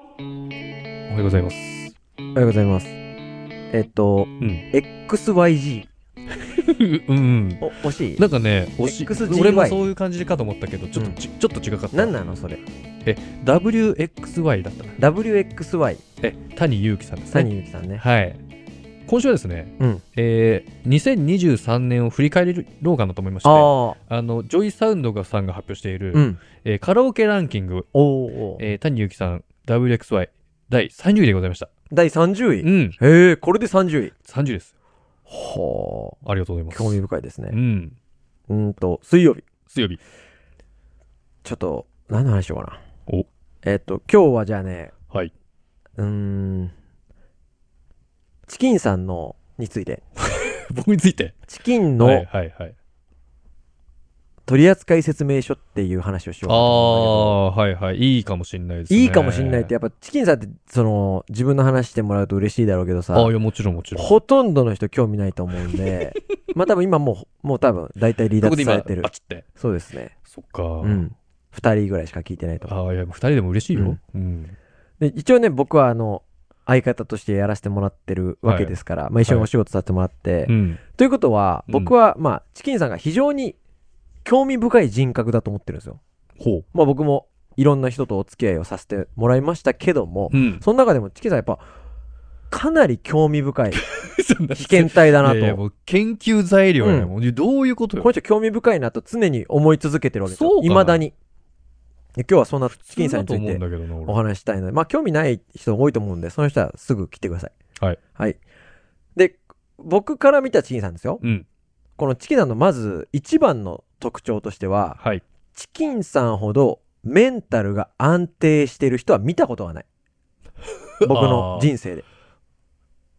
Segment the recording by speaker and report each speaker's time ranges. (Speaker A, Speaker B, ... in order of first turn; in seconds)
Speaker A: 1.1-1.9, 6.5-12.1, 13.1-15.0, 16.2-18.4, 19.1-27.9, 28.6-31.7, 32.6-33.0, 34.2-34.7, 36.2-37.0, 37.5-38.0, 39.7-40.0, 50.2-51.4, 52.0-52.8, 56.5-59.7, 63.1-64.1, 68.4-69.5, 70.3-71.0, 72.7-74.5, 78.4-78.7, 80.5-80.8, 81.7-81.9, 86.4-86.7, 90.3-90.6, 93.7-98.1, 100.3-101.0, 102.8-104.2, 111.2-111.5, 115.0-115.2, 121.0-121.7
Speaker B: 2.4-3.0, 3.7-5.9, 7.6-8.2, 8.8-9.8, 11.9-12.6, 15.0-16.0, 17.3-18.0, 23.4-24.0, 26.1-26.4, 27.9-28.6, 31.9-34.1, 35.3-36.2, 36.7-37.6, 38.5-39.5, 41.4-42.8, 43.6-44.9, 46.0-46.7, 48.5-50.0, 51.5-52.3, 54.5-57.4, 58.9-63.3, 64.0-70.2, 70.8-72.7, 75.0-83.6, 84.2-86.0, 86.7-91.6, 92.5-93.8, 94.6-95.6, 96.8-97.1, 98.0-101.2, 102.2-107.5, 109.2-111.2, 112.0-115.0, 115.5-119.9, 121.0-122.0